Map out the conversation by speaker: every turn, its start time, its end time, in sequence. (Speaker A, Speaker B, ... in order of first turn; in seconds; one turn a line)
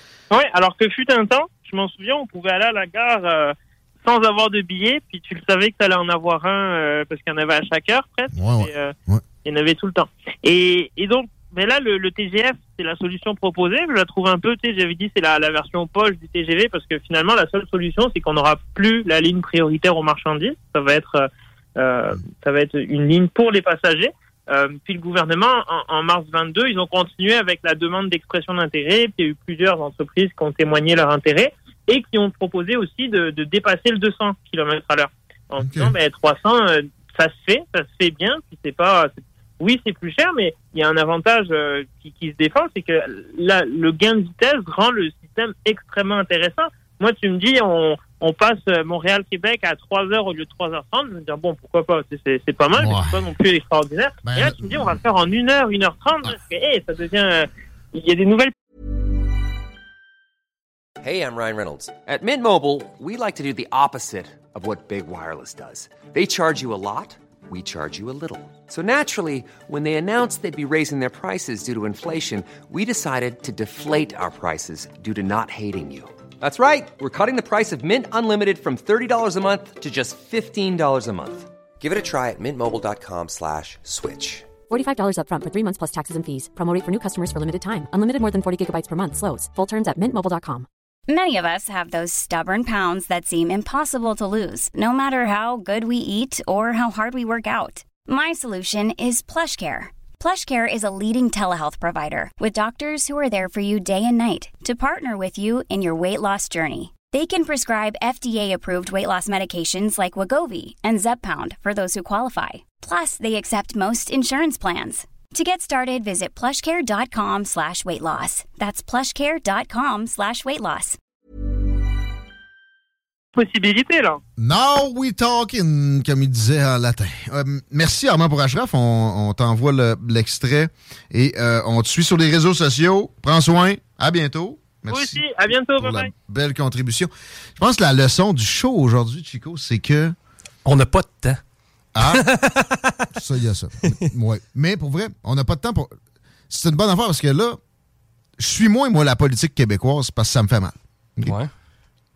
Speaker A: 0.3-8.9
Speaker B: 8.3-9.2
Speaker A: 9.4-21.2
Speaker A: 21.8-58.5
Speaker B: 35.6-35.9
Speaker B: 52.8-53.3
Speaker B: 54.2-55.0
Speaker C: 61.0-84.5
Speaker D: 84.7-90.7
Speaker E: 91.1-121.0
Speaker A: 123.3-124.2
Speaker B: 124.4-135.3
Speaker A: 134.9-136.1
Speaker B: 135.8-140.1
Speaker F: 140.6-141.4
Speaker B: 141.9-142.2
Speaker F: 142.0-143.1
Speaker B: 143.2-145.9
Speaker B: 146.5-147.6
Speaker B: 148.4-151.3
Speaker F: 151.2-151.5